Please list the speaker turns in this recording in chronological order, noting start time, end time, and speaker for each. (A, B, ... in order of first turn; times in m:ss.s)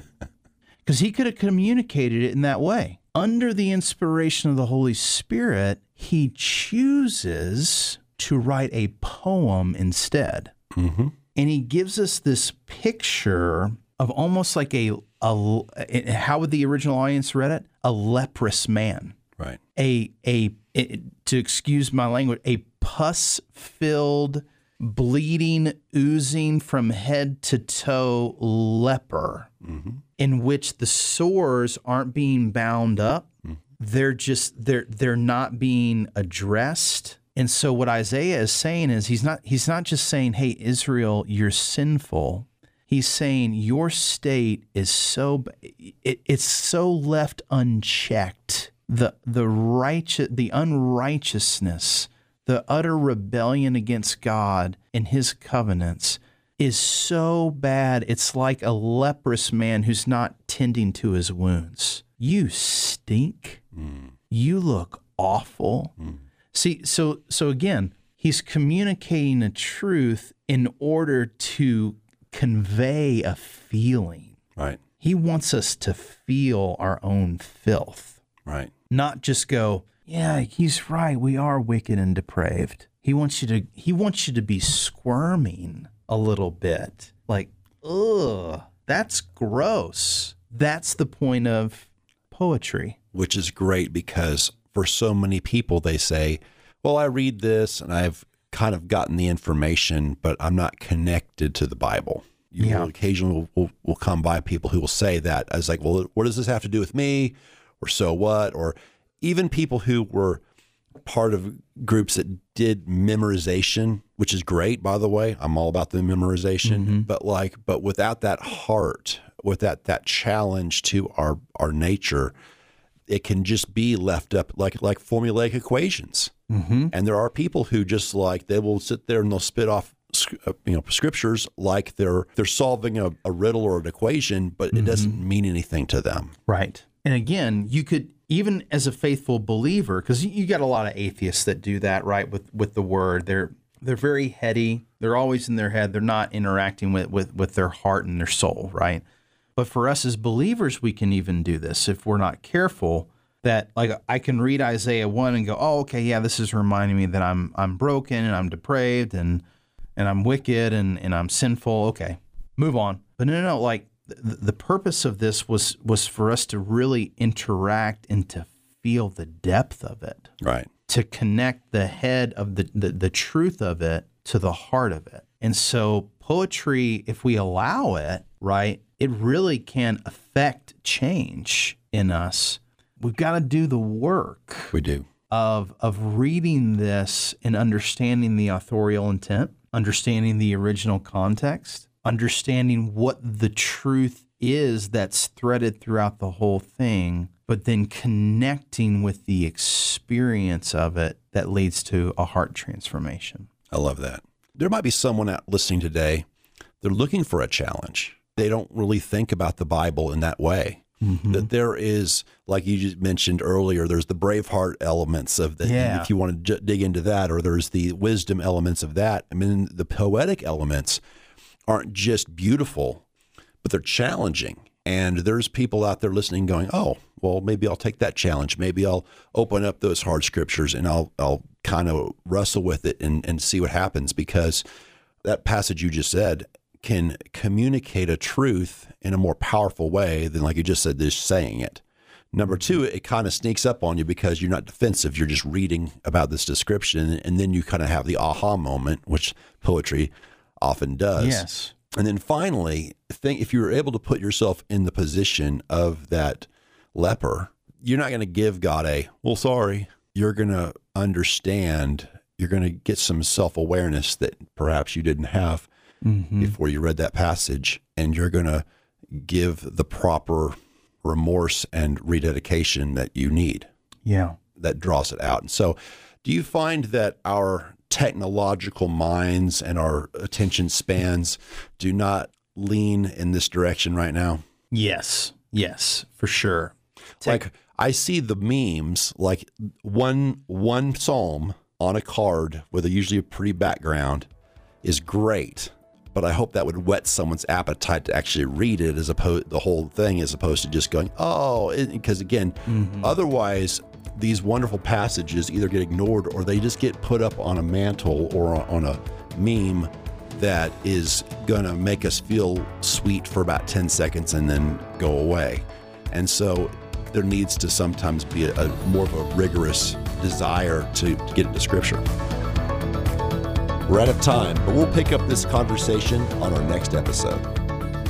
0:00.8-0:10.5 A
0:10.7-0:11.1 B
0:11.3-0:19.2 A
0:19.7-0:29.5 A
0:29.6-0:30.0 B
0:30.2-0:33.2 A
0:33.8-1:03.6 A
1:03.8-1:04.0 B
1:04.3-1:05.9 A
1:06.5-1:14.4 A
1:15.0-1:18.2 A
1:18.9-1:33.0 A
1:33.1-1:50.4 B
1:42.6-1:42.9 A
1:51.0-2:02.3 B
1:56.6-1:57.1 A
2:03.1-2:06.3 B
2:06.5-2:06.9 A
2:06.9-2:16.3 B
2:14.7-2:15.2 A
2:16.5-2:29.0 A
2:29.6-2:39.4 A
2:40.0-2:50.3 A
2:50.4-2:50.7 B
2:50.9-3:04.7 A
3:04.7-3:05.0 B
3:05.3-3:23.5 A
3:23.7-3:26.2 B
3:26.8-3:41.0 B
3:31.0-3:31.5 A
3:35.6-3:36.1 A
3:41.7-3:43.0 B
3:43.6-3:54.6 B
3:55.2-4:25.7 B
4:11.2-4:11.7 A
4:26.0-4:26.5 A
4:26.4-4:33.7 B
4:34.0-4:34.4 A
4:34.6-4:44.4 B
4:44.7-4:47.4 A
4:47.2-4:54.3 B
4:54.8-5:22.0 B
5:02.7-5:03.1 A
5:23.9-5:27.4 B